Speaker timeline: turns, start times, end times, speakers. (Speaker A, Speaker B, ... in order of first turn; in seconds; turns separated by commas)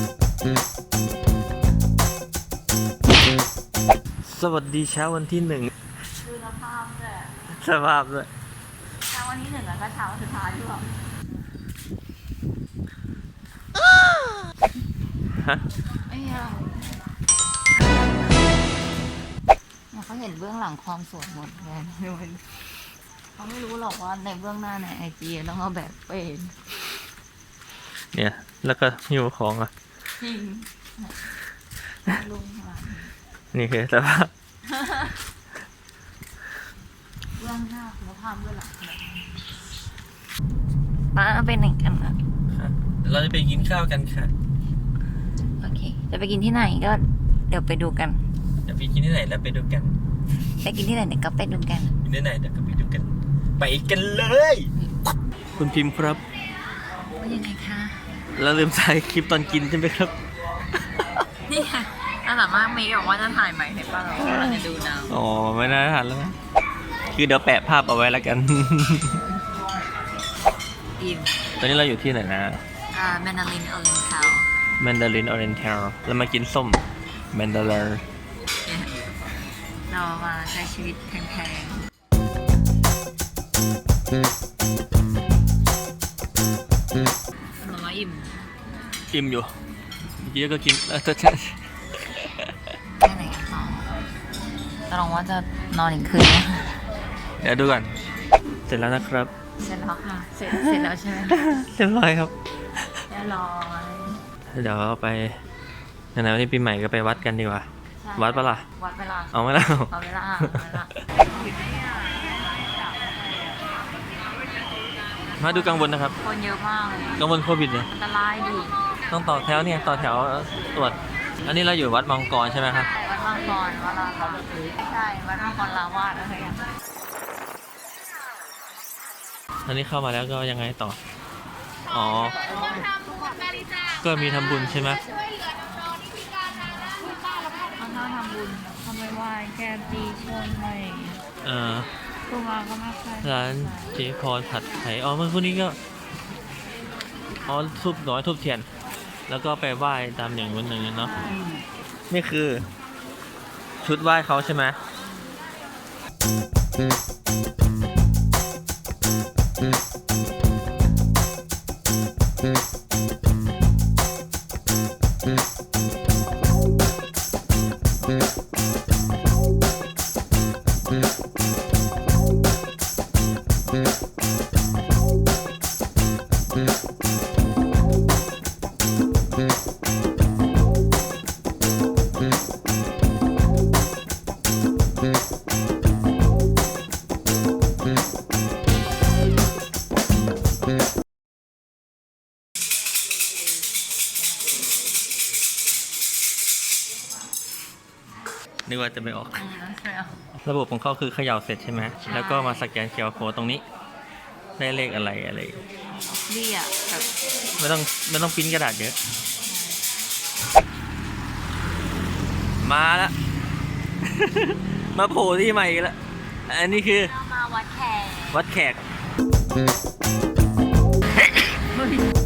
Speaker A: 4.2-5.7, Speaker B: 6.0-7.4, Speaker A: 7.5-8.3, Speaker B: 9.0-11.0, Speaker A: 15.4-15.7, Speaker B: 16.1-17.1, Speaker B: 17.8-18.4, Speaker B: 19.9-22.6, Speaker B: 23.4-26.7, Speaker A: 28.1-29.7, Speaker B: 30.2-31.3, Speaker B: 32.0-33.1, Speaker A: 33.5-34.3, Speaker B: 34.7-35.2, Speaker B: 37.4-39.5, Speaker B: 41.1-42.2, Speaker A: 42.5-44.3, Speaker B: 45.6-48.2, Speaker A: 48.6-50.0, Speaker B: 50.5-52.0, Speaker A: 52.0-54.7, Speaker A: 55.6-56.2, Speaker B: 57.2-58.2, Speaker A: 58.3-60.1, Speaker B: 61.5-65.2, Speaker A: 64.2-66.3, Speaker A: 67.1-69.2, Speaker B: 71.0-71.3, Speaker A: 71.6-72.6, Speaker B: 72.9-74.5, Speaker A: 74.8-78.0, Speaker B: 78.7-79.0, Speaker B: 79.9-81.8, Speaker B: 87.6-88.4, Speaker A: 89.1-89.5, Speaker A: 90.2-92.5, Speaker B: 93.0-93.9, Speaker B: 94.9-96.8, Speaker A: 97.4-97.9, Speaker A: 98.7-99.3, Speaker B: 99.6-101.5, Speaker A: 101.3-102.3, Speaker B: 103.1-104.2, Speaker A: 104.5-105.4, Speaker A: 106.1-108.7, Speaker B: 108.0-113.5, Speaker A: 109.3-110.7, Speaker A: 115.4-116.2, Speaker B: 115.6-117.2, Speaker A: 117.2-117.9, Speaker B: 117.8-118.8, Speaker A: 119.1-122.9, Speaker B: 122.9-126.7, Speaker A: 129.7-131.0, Speaker A: 131.9-132.4, Speaker A: 134.0-135.0, Speaker B: 136.7-141.2, Speaker A: 141.4-141.9, Speaker B: 142.2-143.9, Speaker A: 143.2-145.8, Speaker A: 147.4-148.7, Speaker A: 149.3-151.1, Speaker B: 151.2-151.7, Speaker A: 152.1-152.7, Speaker A: 153.8-154.8, Speaker A: 198.7-199.4, Speaker B: 199.3-200.2, Speaker A: 200.4-203.6, Speaker B: 202.0-202.7, Speaker A: 204.6-205.6, Speaker B: 206.0-207.1, Speaker A: 207.6-208.9, Speaker B: 209.4-209.8, Speaker A: 212.6-213.1, Speaker A: 214.0-215.9, Speaker A: 216.5-217.1, Speaker B: 216.9-218.4, Speaker A: 218.3-218.8